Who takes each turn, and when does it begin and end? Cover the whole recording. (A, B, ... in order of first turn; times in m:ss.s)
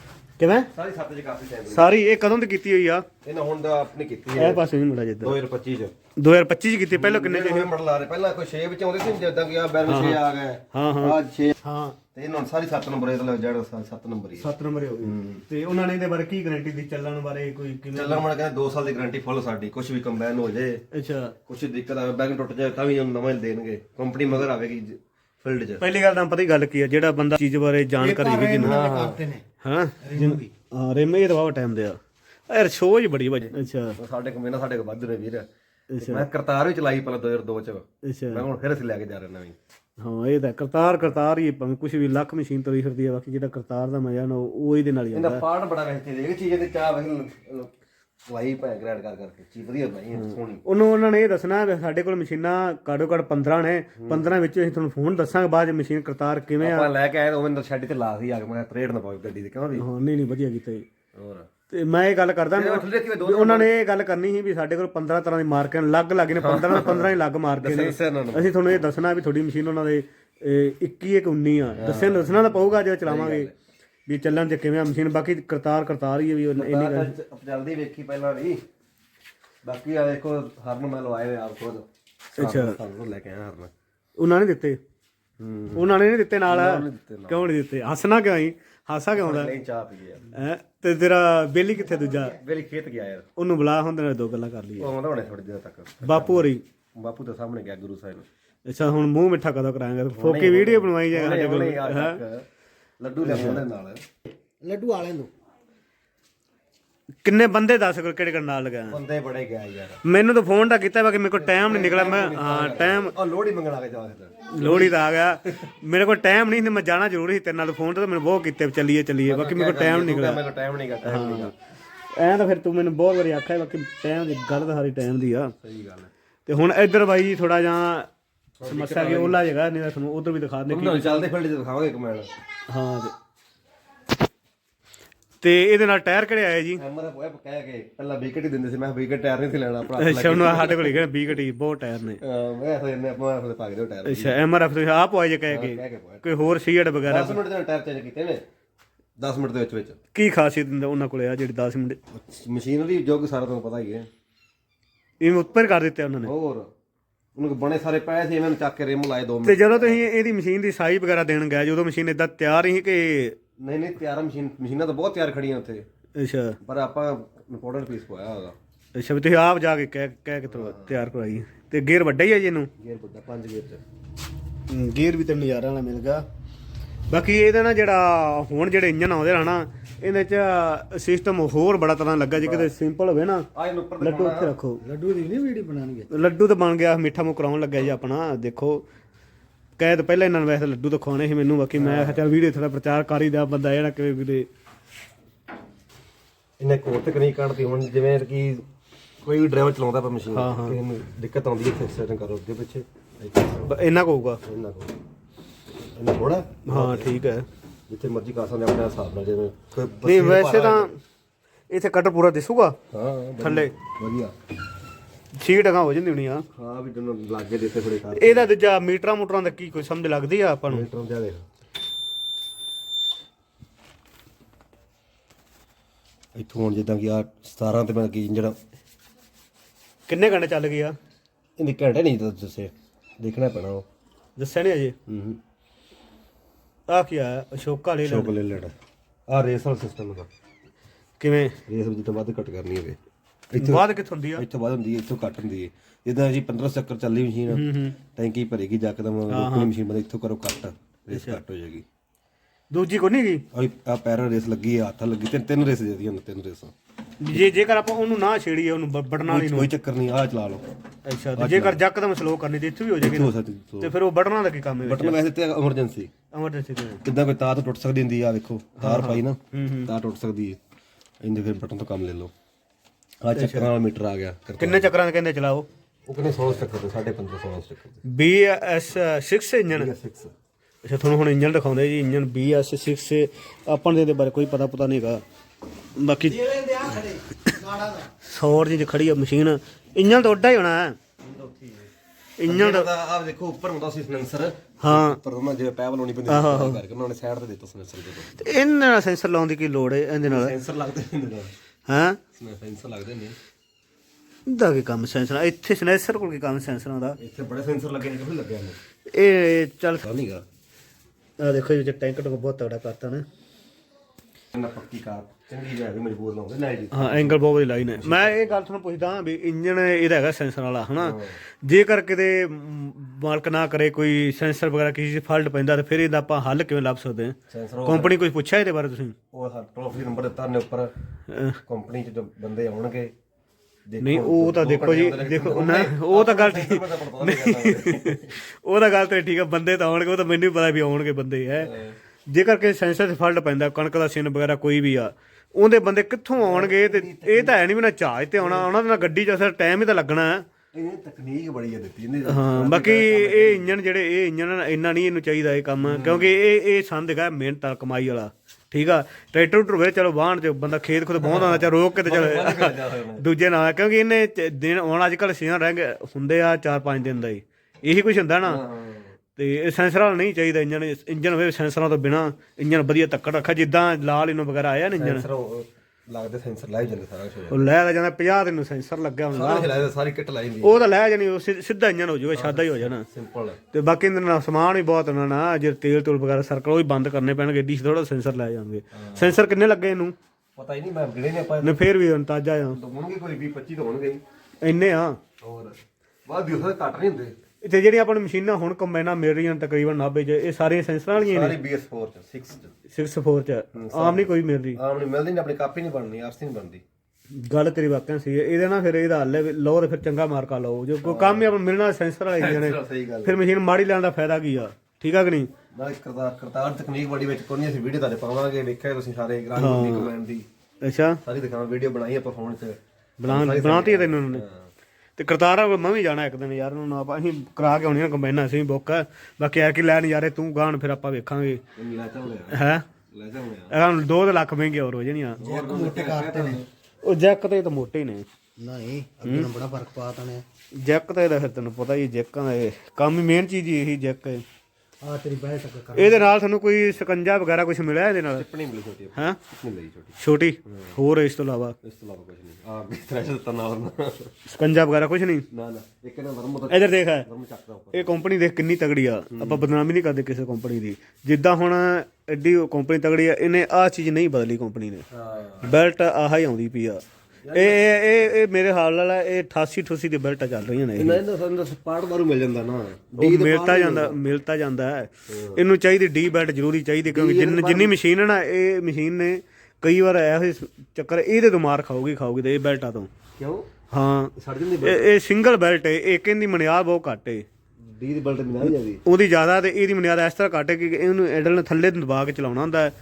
0:00.4-0:00.7 A
0:00.7-0:01.9 B
0:01.7-0:03.1 A
0:03.2-0:04.6 B
0:04.4-0:05.4 A
0:05.2-0:05.9 B
0:06.2-0:07.7 A
0:06.9-0:11.6 B
0:09.9-0:10.2 A
0:10.7-0:12.0 A
0:12.2-0:14.5 B
0:14.4-0:18.2 A
0:15.0-0:15.4 B
0:17.9-0:20.8 B
0:20.9-0:21.4 A
0:21.5-0:25.8 B
0:25.8-0:28.8 A
0:28.0-0:29.4 C
0:28.6-0:29.2 B
0:29.6-0:32.0 A
0:30.0-0:30.5 C
0:32.5-0:34.0 A
0:34.0-0:35.5 B
0:35.9-0:36.3 A
0:36.0-0:39.6 B
0:38.0-0:38.4 A
0:40.0-0:45.4 A
0:45.1-0:47.7 B
0:48.3-0:50.6 B
0:50.2-0:56.9 A
0:54.0-0:54.3 B
0:56.6-0:59.8 B
0:59.8-1:00.9 A
1:01.2-1:01.5 B
1:01.7-1:13.5 A
1:02.5-1:03.7 B
1:06.4-1:08.5 B
1:11.8-1:12.4 B
1:13.0-1:13.5 B
1:14.1-1:17.1 A
1:16.6-1:18.6 B
1:19.6-1:23.7 B
1:22.4-1:22.8 A
1:24.2-1:24.8 A
1:25.4-1:25.9 B
1:25.7-1:29.5 A
1:26.5-1:27.5 B
1:29.2-1:30.3 B
1:30.3-1:32.4 A
1:32.2-1:33.3 B
1:33.4-1:34.9 A
1:34.8-1:38.2 B
1:36.0-1:36.6 A
1:38.7-1:42.2 A
1:40.2-1:42.4 B
1:43.0-1:44.0 B
1:43.2-1:43.6 A
1:44.6-1:45.3 C
1:47.2-1:49.0 A
1:48.9-1:50.0 B
1:50.0-1:53.2 A
1:51.4-1:55.0 B
1:54.5-2:00.4 A
1:59.3-2:01.5 B
2:01.0-2:01.5 A
2:02.1-2:05.5 A
2:05.6-2:06.1 B
2:06.5-2:08.1 A
2:08.6-2:09.4 B
2:08.6-2:11.3 A
2:10.7-2:12.3 B
2:12.7-2:13.1 A
2:15.4-2:16.8 A
2:16.8-2:21.0 B
2:20.0-2:22.2 A
2:22.2-2:24.4 B
2:24.0-2:27.4 A
2:25.5-2:26.3 B
2:27.0-2:28.4 B
2:29.2-2:30.0 B
2:30.1-2:32.0 A
2:32.1-2:34.1 B
2:35.2-2:36.3 A
2:36.2-2:36.7 B
2:37.4-2:40.0 B
2:39.4-2:43.4 A
2:43.6-2:45.8 B
2:46.2-2:46.6 A
2:46.6-2:48.6 B
2:49.0-2:52.7 A
2:50.5-2:51.0 B
2:52.8-2:53.8 B
2:54.7-2:56.2 A
2:57.1-3:03.5 A
3:02.4-3:02.7 B
3:03.5-3:04.5 B
3:04.0-3:04.8 A
3:04.8-3:06.1 C
3:06.1-3:08.8 A
3:09.8-3:14.5 A
3:11.8-3:12.2 B
3:16.6-3:18.7 B
3:19.2-3:23.8 B
3:20.3-3:20.8 A
3:23.6-3:24.4 A
3:24.4-3:24.9 B
3:26.0-3:27.1 B
3:26.7-3:27.4 A
3:27.9-3:31.0 B
3:30.0-3:31.0 A
3:31.7-3:32.8 A
3:32.9-3:34.3 B
3:33.4-3:33.7 A
3:35.4-3:36.4 A
3:36.5-3:38.5 B
3:38.2-3:40.8 A
3:40.7-3:41.4 B
3:46.4-3:48.6 B
3:50.1-3:51.0 A
3:51.6-3:53.8 B
3:54.4-3:55.0 A
3:55.1-3:55.4 B
3:56.9-3:58.3 A
3:58.0-3:58.8 B
3:59.3-4:00.3 B
4:01.2-4:01.6 A
4:01.7-4:03.0 B
4:03.5-4:11.8 B
4:03.6-4:04.4 A
4:07.5-4:08.0 A
4:09.3-4:09.7 A
4:11.1-4:11.4 A
4:12.7-4:13.4 A
4:13.5-4:16.7 B
4:17.2-4:19.7 A
4:19.2-4:20.6 B
4:21.1-4:25.2 A
4:21.4-4:21.8 B
4:23.0-4:23.9 B
4:24.8-4:26.1 B
4:26.3-4:27.0 A
4:27.0-4:30.6 B
4:28.8-4:29.9 A
4:31.2-4:32.3 B
4:33.2-4:34.9 B
4:33.3-4:33.7 A
4:34.6-4:35.7 A
4:36.1-4:38.0 B
4:38.0-4:39.9 A
4:39.7-4:40.3 B
4:40.8-4:45.2 A
4:46.0-4:51.0 A
4:46.8-4:48.1 C
4:51.2-4:51.9 B
4:52.4-4:52.9 A
4:52.5-4:58.3 B
4:54.8-4:55.2 A
4:56.3-4:56.8 A
4:58.4-5:00.6 A
5:00.2-5:01.5 B
5:01.9-5:02.2 A
5:02.3-5:03.4 B
5:04.5-5:07.2 A
5:07.2-5:08.8 B
5:09.1-5:10.0 A
5:10.0-5:10.4 B
5:11.4-5:13.2 A
5:14.5-5:17.4 B
5:16.9-5:29.2 A
5:17.9-5:18.6 B
5:21.0-5:21.4 B
5:27.5-5:28.2 B
5:29.3-5:30.9 B
5:31.3-5:31.6 A
5:31.7-5:33.1 B
5:33.9-5:38.4 B
5:34.0-5:41.7 A
5:41.6-5:42.0 B
5:42.3-5:50.4 A
5:46.4-5:47.6 B
5:48.4-5:48.7 B
5:50.7-5:53.7 B
5:52.3-6:08.6 A
5:55.8-5:56.3 B
6:01.2-6:03.3 B
6:08.4-6:09.2 B
6:09.4-6:15.3 A
6:15.0-6:17.7 B
6:17.5-6:19.8 A
6:19.3-6:20.9 B
6:20.6-6:23.1 A
6:22.3-6:23.6 B
6:23.7-6:30.2 A
6:28.9-6:29.4 B
6:30.6-6:31.8 B
6:31.6-6:32.8 A
6:32.7-6:34.2 B
6:34.6-6:35.2 A
6:35.4-6:37.3 B
6:37.6-6:41.6 A
6:41.2-6:42.7 B
6:42.9-6:44.8 A
6:43.7-6:46.8 B
6:47.3-6:55.5 A
6:51.0-6:51.5 B
6:52.4-6:53.4 B
6:55.7-7:00.5 B
6:59.6-7:00.1 A
7:00.8-7:01.2 A
7:01.2-7:04.7 B
7:03.2-7:04.4 A
7:05.2-7:11.6 A
7:11.8-7:13.8 B
7:12.5-7:12.8 A
7:13.7-7:15.4 A
7:15.4-7:16.6 C
7:15.4-7:16.7 B
7:17.0-7:18.2 A
7:18.6-7:20.4 C
7:19.2-7:19.5 A
7:20.8-7:24.4 A
7:25.0-7:26.3 C
7:25.9-7:28.5 A
7:28.3-7:30.9 B
7:30.2-7:31.8 A
7:31.8-7:34.3 B
7:34.5-7:35.5 A
7:35.5-7:38.2 B
7:36.7-7:37.3 A
7:37.9-7:45.1 A
7:39.3-7:39.7 B
7:45.1-7:45.7 B
7:45.6-7:47.0 A
7:47.4-7:48.2 B
7:47.5-7:51.2 A
7:51.0-7:54.2 B
7:53.2-8:03.1 A
7:55.3-7:55.6 B
7:57.1-7:58.0 B
8:03.4-8:03.7 B
8:03.9-8:07.4 A
8:04.4-8:05.1 B
8:07.8-8:09.0 B
8:08.6-8:12.9 A